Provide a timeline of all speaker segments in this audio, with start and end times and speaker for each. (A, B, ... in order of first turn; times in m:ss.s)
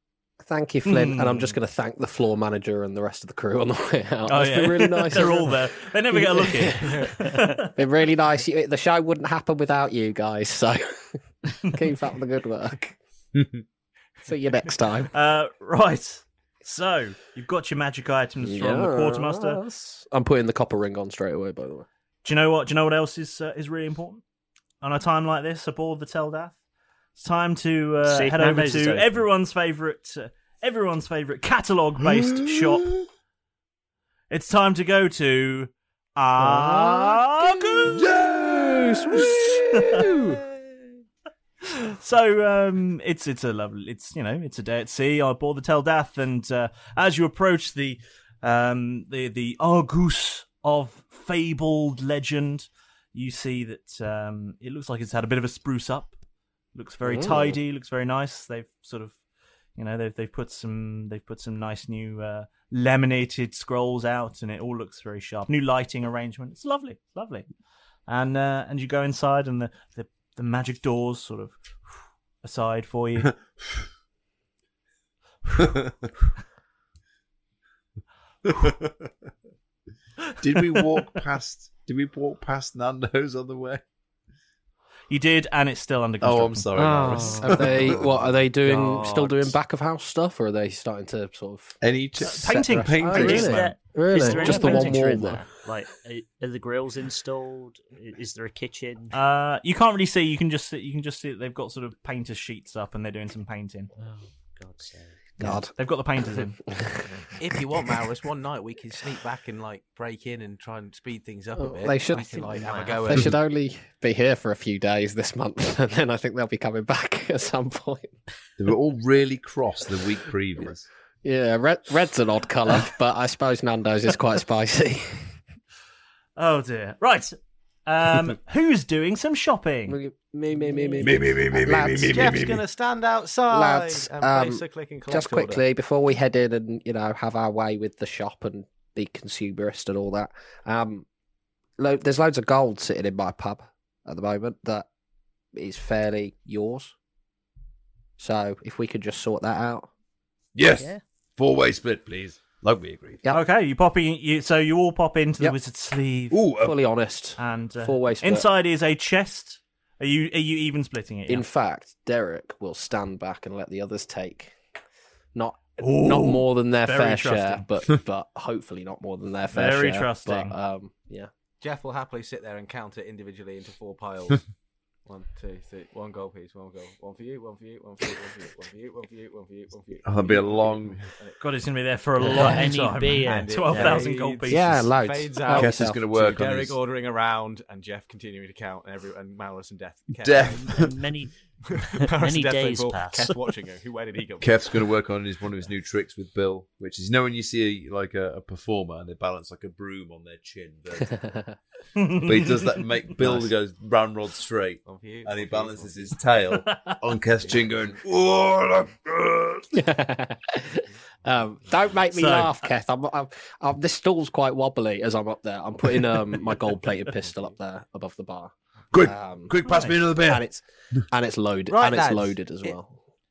0:00.4-0:07.0 A
0:00.9-0:01.5 B
0:04.3-0:07.7 B
0:07.8-0:13.0 A
0:14.2-0:15.1 A
0:15.1-0:19.6 B
0:18.4-0:21.9 A
0:22.2-0:24.2 B
0:24.8-0:26.6 B
0:27.2-0:32.9 B
0:28.0-0:29.2 C
0:34.3-0:38.1 B
0:36.4-0:40.4 A
0:38.0-0:39.7 D
0:39.2-0:40.1 B
0:41.6-0:56.1 B
0:56.7-0:59.2 B
0:57.0-0:57.6 A
0:59.8-1:07.4 B
1:08.1-1:11.8 B
1:12.4-1:13.3 B
1:15.6-1:15.9 D
1:18.4-1:19.1 D
1:20.4-1:23.8 D
1:25.1-1:27.3 B
1:26.2-1:28.1 D
1:26.7-1:28.1 C
1:27.4-1:31.8 A
1:28.6-1:29.5 C
1:31.8-1:33.6 D
1:32.2-1:35.2 B
1:32.4-1:35.4 A
1:33.1-1:39.1 C
1:39.1-1:43.9 B
1:44.0-1:45.2 C
1:45.4-1:45.7 A
1:45.4-1:46.6 B
1:46.3-1:47.0 A
1:47.4-1:53.3 E
1:51.6-1:58.2 A
1:52.1-1:53.3 C
1:58.6-2:00.9 D
2:01.2-2:05.3 A
2:06.4-2:10.0 B
2:09.9-2:12.3 A
2:11.0-2:12.6 D
2:12.1-2:15.6 E
2:13.5-2:21.0 A
2:21.8-2:24.9 A
2:25.5-2:26.9 A
2:28.2-2:29.9 A
2:30.6-2:33.2 D
2:30.7-2:31.0 C
2:33.3-2:36.4 B
2:36.3-2:36.7 D
2:36.6-2:38.5 A
2:37.4-2:41.4 B
2:41.3-2:44.6 A
2:45.3-2:51.3 A
2:45.8-2:47.7 B
2:49.5-2:50.5 B
2:51.6-2:54.5 E
2:55.0-3:01.4 E
3:00.0-3:01.0 D
3:01.4-3:04.9 B
3:02.2-3:04.1 C
3:02.4-3:02.6 E
3:03.2-3:10.9 E
3:04.5-3:06.0 A
3:05.5-3:06.8 D
3:10.2-3:10.9 D
3:10.4-3:11.3 C
3:11.7-3:14.9 E
3:11.8-3:13.4 C
3:14.4-3:21.3 D
3:22.1-3:29.7 D
3:23.2-3:23.5 E
3:24.8-3:26.3 E
3:27.3-3:28.0 E
3:29.7-3:39.5 A
3:32.1-3:32.6 B
3:36.2-3:37.6 E
3:38.9-3:40.5 D
3:39.6-3:40.0 B
3:40.2-3:43.0 A
3:41.7-3:42.7 E